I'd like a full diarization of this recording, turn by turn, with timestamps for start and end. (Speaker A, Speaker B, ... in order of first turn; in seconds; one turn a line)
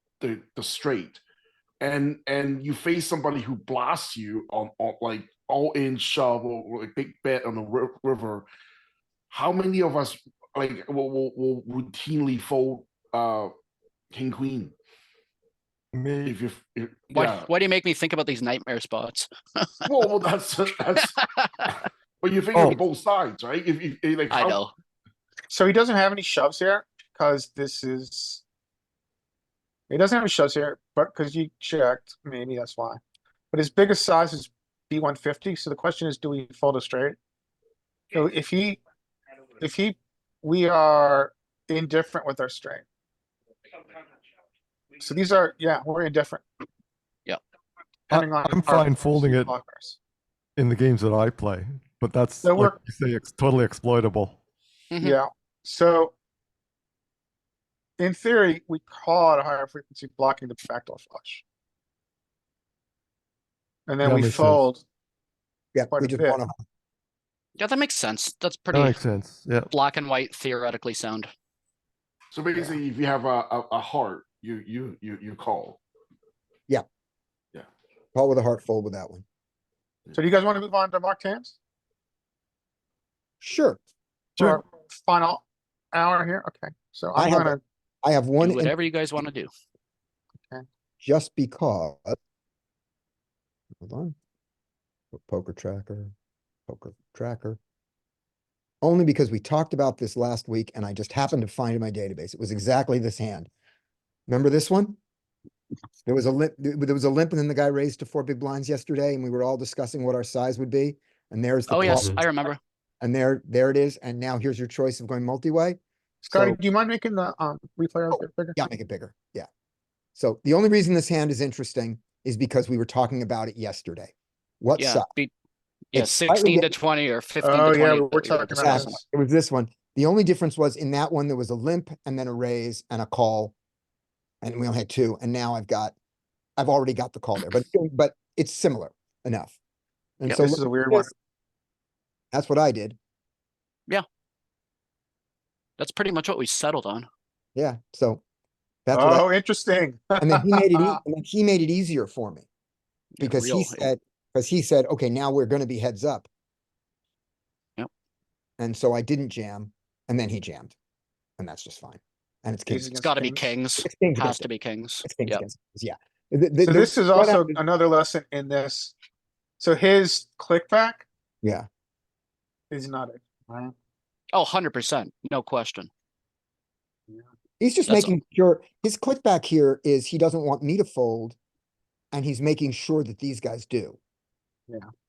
Speaker A: 0.2-1.2
Speaker A: 1.8-8.5
Speaker A: 9.3-13.5
Speaker A: 14.1-14.7
Speaker B: 15.9-16.4
Speaker A: 16.2-17.5
Speaker C: 17.1-19.7
Speaker A: 19.8-21.2
Speaker C: 21.2-21.7
Speaker A: 21.7-24.6
Speaker B: 22.5-22.8
Speaker C: 24.3-24.7
Speaker D: 25.5-28.4
Speaker D: 29.9-33.0
Speaker D: 33.5-37.2
Speaker D: 38.1-38.8
Speaker D: 39.6-42.8
Speaker D: 45.0-46.5
Speaker D: 48.1-50.0
Speaker B: 48.1-49.5
Speaker B: 50.5-54.4
Speaker D: 52.4-52.8
Speaker C: 54.9-55.2
Speaker D: 55.0-56.1
Speaker D: 58.0-61.4
Speaker D: 63.9-64.8
Speaker B: 64.0-64.6
Speaker E: 65.7-66.5
Speaker D: 65.9-66.4
Speaker C: 67.6-69.0
Speaker B: 68.7-69.7
Speaker C: 69.7-71.3
Speaker A: 72.3-75.8
Speaker E: 78.1-79.2
Speaker D: 80.1-81.6
Speaker E: 83.4-83.8
Speaker D: 84.4-87.6
Speaker E: 87.1-88.7
Speaker C: 88.4-89.5
Speaker E: 91.0-92.2
Speaker E: 93.8-94.2
Speaker E: 95.1-96.1
Speaker E: 96.7-97.6
Speaker E: 98.8-103.5
Speaker E: 104.3-105.0
Speaker E: 106.0-112.1
Speaker C: 111.7-112.6
Speaker E: 113.0-115.8
Speaker D: 116.2-118.6
Speaker E: 116.3-116.6
Speaker E: 118.5-119.5
Speaker E: 120.2-125.1
Speaker C: 124.8-125.3
Speaker C: 125.9-129.0
Speaker E: 125.9-126.7
Speaker D: 127.4-129.0
Speaker E: 128.6-133.5
Speaker E: 134.4-135.9
Speaker E: 136.6-139.6
Speaker E: 140.2-141.1
Speaker D: 140.3-141.1
Speaker E: 142.3-143.0
Speaker C: 145.8-147.1
Speaker E: 147.5-148.2
Speaker E: 148.8-149.3
Speaker D: 148.9-151.0
Speaker E: 150.2-152.5
Speaker C: 153.2-153.9
Speaker E: 153.2-156.3
Speaker E: 158.6-160.7
Speaker E: 161.4-162.9
Speaker D: 162.7-163.5
Speaker C: 162.9-165.4
Speaker E: 163.8-164.5
Speaker E: 165.0-167.6
Speaker D: 166.6-168.9
Speaker D: 169.6-171.0
Speaker D: 172.7-173.7
Speaker C: 174.3-175.9
Speaker E: 177.6-181.4
Speaker C: 177.9-178.1
Speaker E: 182.1-184.0